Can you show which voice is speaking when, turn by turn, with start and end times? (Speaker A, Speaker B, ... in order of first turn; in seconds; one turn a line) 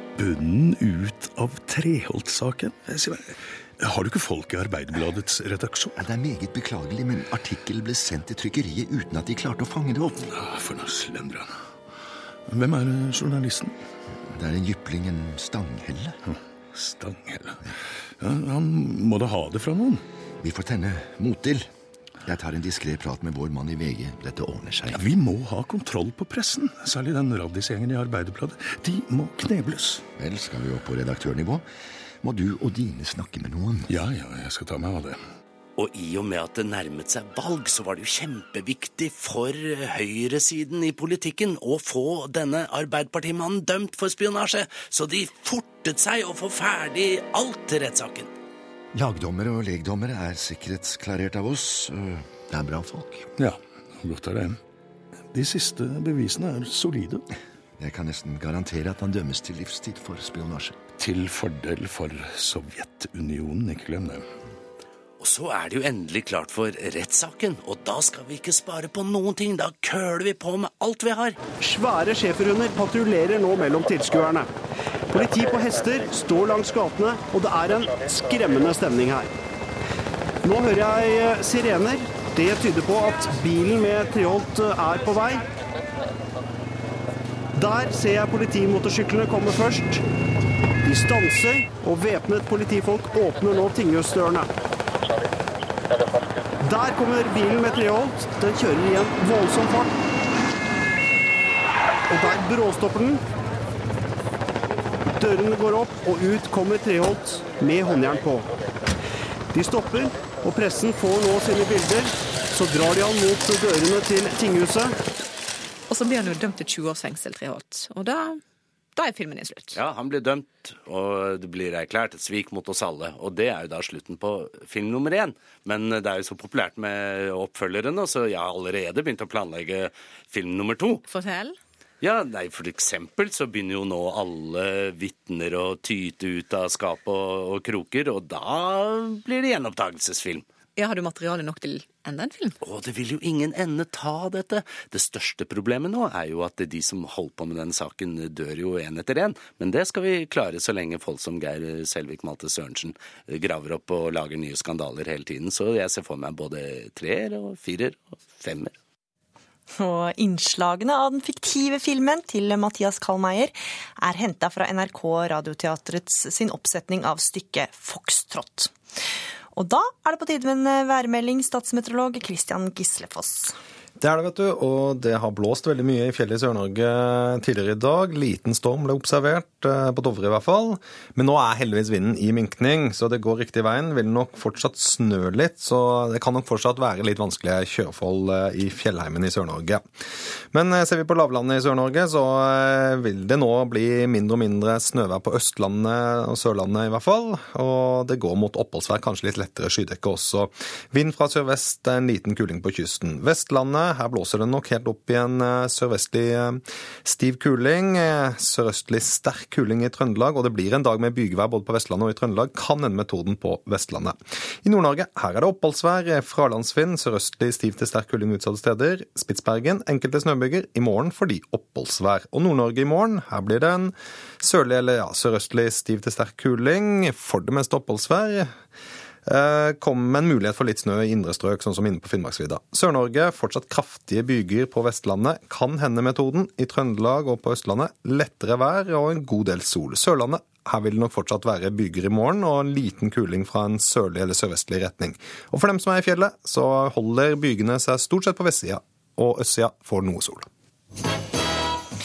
Speaker A: 0.2-5.9
Speaker B: 6.0-10.3
Speaker A: 10.2-11.5
Speaker A: 12.5-13.8
Speaker B: 14.3-16.2
Speaker A: 16.3-17.6
Speaker A: 18.2-20.0
Speaker B: 20.4-21.7
Speaker B: 22.2-25.0
Speaker A: 24.9-30.0
Speaker B: 30.2-31.6
Speaker B: 32.2-33.9
Speaker A: 33.9-35.2
Speaker C: 35.8-48.3
Speaker B: 48.9-53.3
Speaker A: 53.4-54.6
Speaker A: 55.3-57.2
Speaker B: 57.8-61.0
Speaker A: 61.0-64.3
Speaker C: 65.2-71.4
Speaker D: 71.6-74.5
Speaker D: 75.1-79.3
Speaker D: 80.4-85.4
Speaker D: 87.5-90.0
Speaker D: 90.8-94.5
Speaker D: 96.6-99.9
Speaker D: 102.1-103.2
Speaker D: 105.2-108.5
Speaker D: 109.5-114.9
Speaker E: 115.9-118.4
Speaker E: 119.0-119.8
Speaker C: 119.7-131.0
Speaker E: 131.1-131.6
Speaker C: 132.0-140.4
Speaker E: 140.8-142.5
Speaker C: 142.6-158.7
Speaker F: 159.8-168.7
Speaker F: 169.5-173.5
Speaker G: 174.0-189.8
Speaker G: 190.5-228.5
Speaker G: 229.3-250.5